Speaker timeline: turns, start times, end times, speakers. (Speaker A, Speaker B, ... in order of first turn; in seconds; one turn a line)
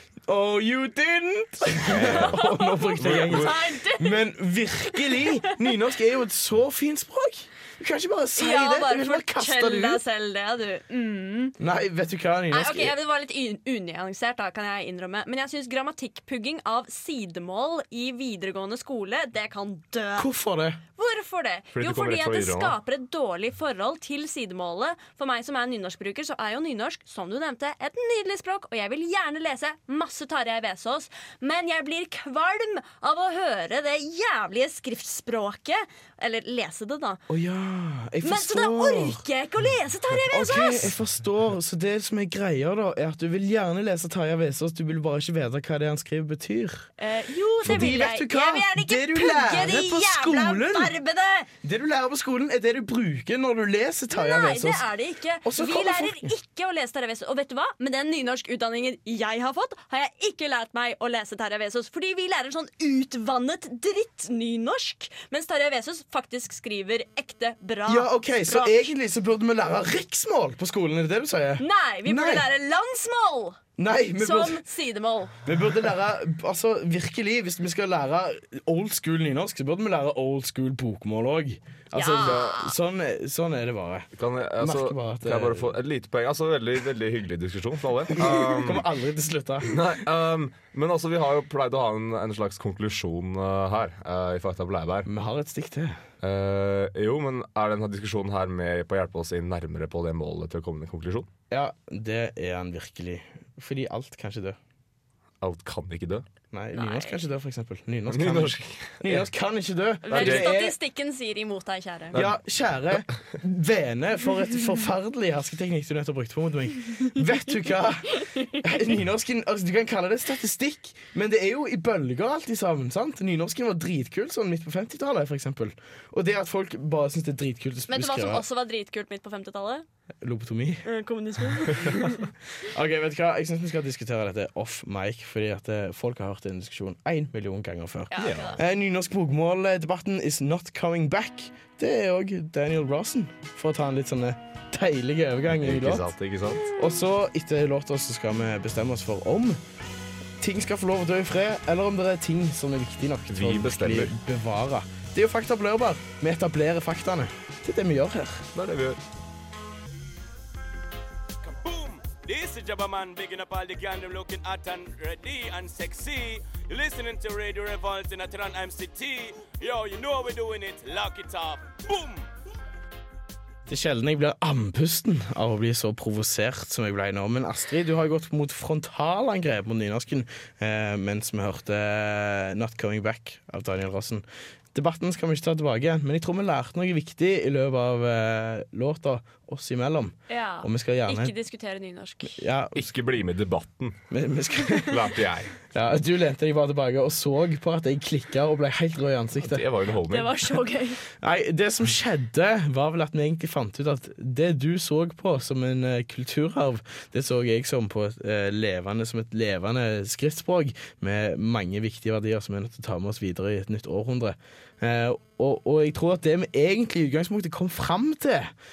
Speaker A: 0.3-10.0
Speaker B: 1.8-2.4
Speaker C: 2.1-4.2
Speaker B: 3.0-3.6
Speaker C: 8.3-11.5
Speaker A: 11.6-12.9
Speaker C: 12.5-20.3
Speaker A: 20.1-20.8
Speaker C: 21.0-37.2
Speaker B: 21.7-22.8
Speaker A: 37.3-39.2
Speaker C: 38.2-40.9
Speaker A: 40.3-46.9
Speaker C: 47.0-51.5
Speaker A: 47.6-50.9
Speaker A: 51.6-54.9
Speaker C: 54.1-68.9
Speaker A: 55.4-56.3
Speaker A: 67.9-72.5
Speaker C: 71.6-73.6
Speaker A: 73.8-74.6
Speaker C: 74.2-75.3
Speaker A: 75.4-84.1
Speaker C: 81.9-82.7
Speaker B: 84.2-88.8
Speaker A: 84.6-85.7
Speaker A: 88.1-89.8
Speaker B: 89.6-95.1
Speaker A: 95.0-96.0
Speaker B: 96.2-101.3
Speaker A: 101.5-104.6
Speaker B: 105.4-106.2
Speaker A: 106.5-110.7
Speaker C: 106.7-107.2
Speaker B: 108.1-109.2
Speaker C: 110.0-112.2
Speaker B: 110.1-110.6
Speaker A: 112.1-128.4
Speaker C: 127.9-129.8
Speaker A: 130.2-130.8
Speaker C: 130.8-132.2
Speaker A: 132.7-146.1
Speaker C: 138.1-138.6
Speaker B: 138.2-138.6
Speaker B: 145.5-146.7
Speaker A: 146.7-149.6
Speaker A: 150.4-158.5
Speaker B: 153.3-154.1
Speaker B: 158.5-159.0
Speaker D: 161.4-172.3
Speaker A: 173.7-191.3
Speaker C: 190.3-192.4
Speaker A: 192.2-192.9
Speaker B: 192.7-194.0
Speaker A: 194.1-195.1
Speaker B: 194.8-195.6
Speaker A: 195.6-199.7
Speaker B: 199.4-200.4
Speaker C: 200.1-201.0
Speaker A: 201.1-218.5